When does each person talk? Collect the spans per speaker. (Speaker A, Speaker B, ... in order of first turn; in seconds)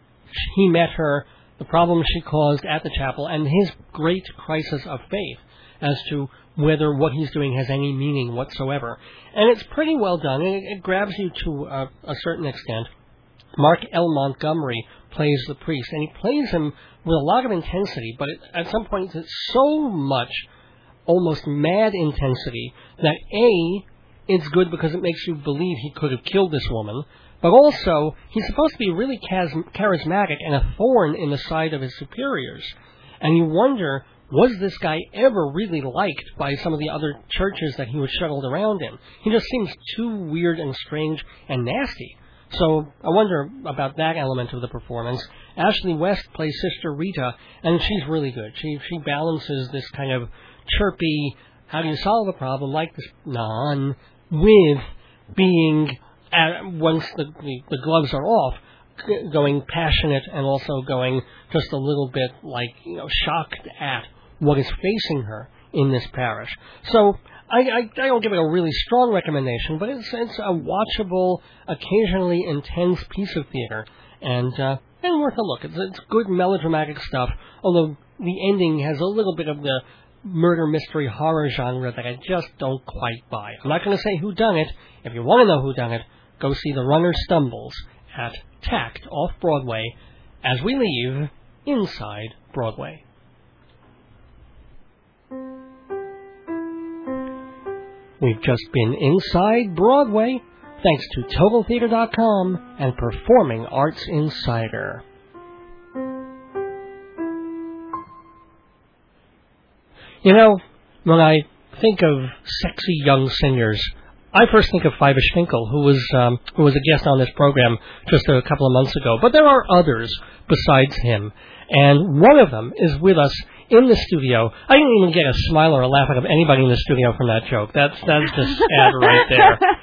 Speaker A: 0.3-12.9, 13.6-20.4, 21.1-93.0, 98.2-105.0, 110.2-129.7